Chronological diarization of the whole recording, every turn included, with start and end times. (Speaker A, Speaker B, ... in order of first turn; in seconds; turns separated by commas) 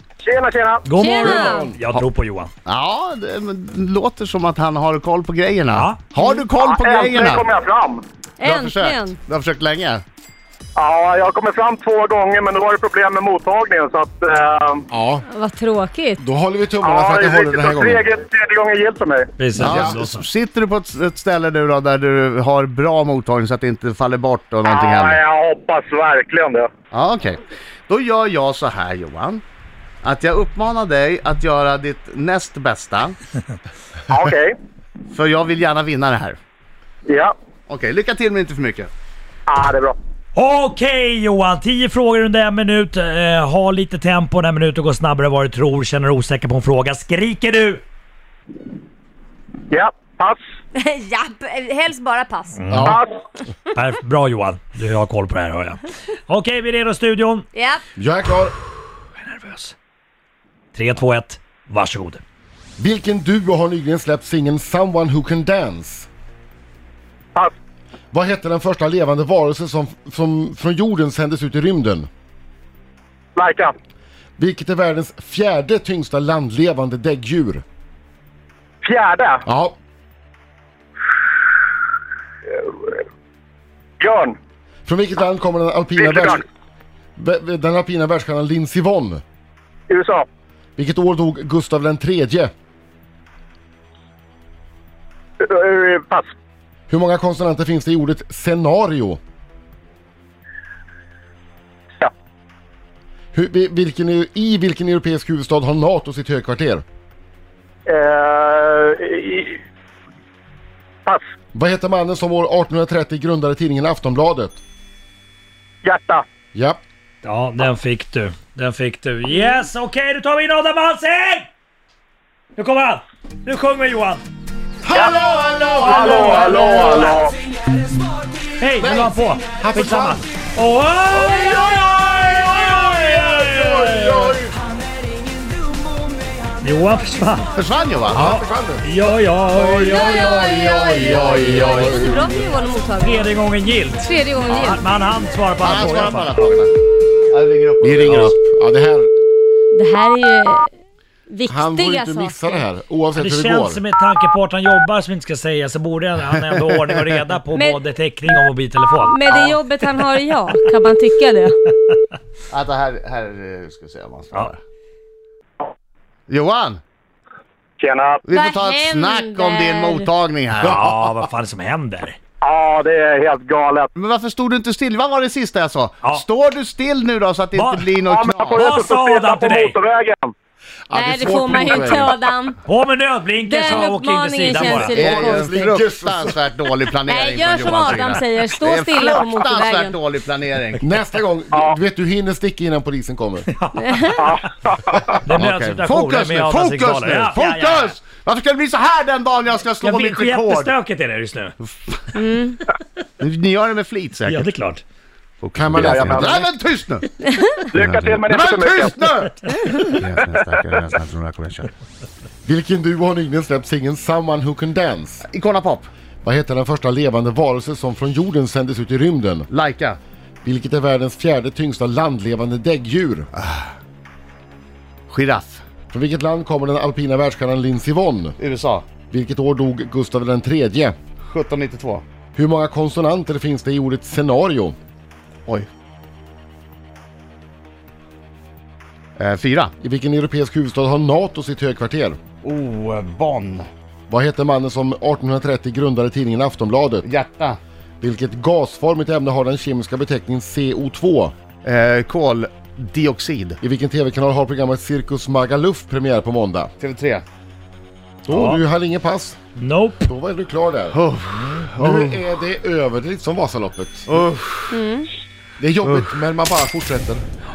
Speaker A: 0.2-0.9, Speaker B: 0.8-2.5, Speaker C: 0.9-1.6, Speaker D: 1.0-1.8, Speaker E: 2.6-7.5, Speaker B: 5.7-6.0, Speaker C: 6.2-6.4, Speaker A: 6.6-8.0, Speaker C: 8.4-9.2, Speaker E: 8.4-10.0, Speaker A: 10.8-14.9, Speaker D: 14.9-15.2, Speaker C: 15.3-16.2, Speaker D: 16.2-18.1, Speaker A: 16.8-19.3, Speaker B: 19.4-20.2, Speaker D: 19.6-20.0, Speaker E: 19.6-25.2, Speaker A: 24.7-26.7, Speaker E: 26.9-29.4, Speaker E: 30.0-33.2, Speaker A: 34.1-34.5, Speaker E: 35.1-36.4, Speaker A: 37.1-37.3, Speaker E: 37.7-38.9, Speaker A: 39.5-40.0, Speaker B: 40.3-47.8, Speaker A: 49.7-50.4, Speaker C: 50.7-52.6, Speaker B: 52.5-53.0, Speaker D: 52.7-53.0, Speaker B: 53.7-57.5, Speaker C: 57.5-57.8, Speaker D: 58.0-58.5, Speaker B: 59.2-59.7, Speaker B: 60.7-62.2, Speaker D: 62.8-66.1, Speaker D: 68.1-72.1, Speaker A: 73.3-73.7, Speaker D: 74.4-77.6, Speaker A: 78.8-79.4, Speaker D: 79.4-79.8, Speaker A: 82.5-83.0, Speaker A: 84.0-84.3, Speaker D: 84.8-86.4, Speaker A: 86.0-86.4, Speaker D: 87.2-89.2, Speaker A: 89.9-90.2, Speaker D: 90.8-92.5, Speaker A: 95.4-96.3, Speaker D: 96.9-99.2, Speaker D: 103.3-106.8, Speaker A: 107.9-109.6, Speaker D: 111.5-114.6, Speaker A: 115.8-116.2, Speaker D: 116.5-116.8, Speaker B: 117.2-121.5, Speaker B: 122.6-124.2, Speaker D: 124.8-127.1, Speaker A: 124.9-125.2, Speaker B: 125.8-127.1, Speaker A: 125.8-127.3, Speaker B: 128.6-131.8, Speaker D: 128.8-130.2, Speaker D: 131.1-134.6, Speaker B: 132.5-134.4, Speaker B: 136.6-137.5, Speaker E: 137.5-138.4, Speaker D: 138.1-138.9, Speaker B: 138.1-140.1, Speaker D: 139.5-142.5, Speaker C: 139.9-143.3, Speaker E: 141.0-142.0, Speaker B: 143.0-146.4, Speaker C: 144.0-144.8, Speaker E: 145.6-146.7, Speaker E: 147.3-148.3, Speaker D: 147.8-149.1, Speaker B: 148.0-148.3, Speaker C: 149.7-150.7, Speaker C: 151.3-152.4, Speaker D: 151.4-153.8, Speaker B: 153.2-159.2, Speaker C: 159.1-161.6, Speaker E: 159.3-159.6, Speaker E: 162.5-164.6, Speaker E: 166.3-166.8, Speaker A: 167.8-168.2, Speaker E: 168.2-170.9, Speaker C: 168.3-170.0, Speaker B: 170.6-172.2, Speaker A: 172.4-173.9, Speaker E: 173.9-178.7, Speaker B: 177.6-177.9, Speaker A: 178.1-180.3, Speaker B: 178.5-179.7, Speaker D: 180.9-182.3, Speaker C: 180.9-182.6, Speaker B: 182.6-185.0, Speaker C: 183.5-185.4, Speaker D: 184.5-186.4, Speaker E: 184.9-190.8, Speaker C: 187.1-190.0, Speaker D: 190.8-193.5, Speaker B: 193.5-194.5, Speaker A: 194.2-195.1, Speaker B: 195.2-198.0, Speaker E: 195.3-200.7, Speaker B: 199.8-201.6, Speaker C: 202.1-202.6, Speaker E: 203.2-204.5, Speaker B: 204.3-204.8, Speaker E: 205.4-211.7, Speaker D: 205.5-206.5, Speaker A: 205.8-206.3, Speaker A: 207.7-208.9, Speaker D: 212.4-215.2, Speaker E: 215.3-215.9, Speaker D: 216.2-219.5, Speaker E: 219.5-220.0, Speaker D: 220.4-223.3, Speaker E: 223.3-223.7, Speaker E: 225.1-225.6, Speaker D: 225.9-228.4, Speaker E: 228.4-228.8, Speaker D: 229.1-230.9, Speaker E: 231.2-232.0, Speaker D: 232.3-234.8, Speaker E: 239.2-239.7, Speaker D: 239.8-242.2, Speaker E: 242.4-243.7, Speaker D: 244.1-247.1, Speaker E: 247.0-247.6, Speaker D: 248.0-251.3, Speaker E: 251.6-253.6, Speaker D: 253.6-256.7, Speaker E: 256.8-257.2, Speaker D: 258.2-259.4, Speaker B: 258.3-258.6, Speaker B: 259.6-260.0, Speaker D: 260.0-261.0, Speaker E: 260.9-262.2, Speaker D: 261.8-264.2, Speaker E: 264.1-264.8, Speaker C: 264.7-265.1, Speaker D: 265.6-267.2, Speaker E: 265.8-266.2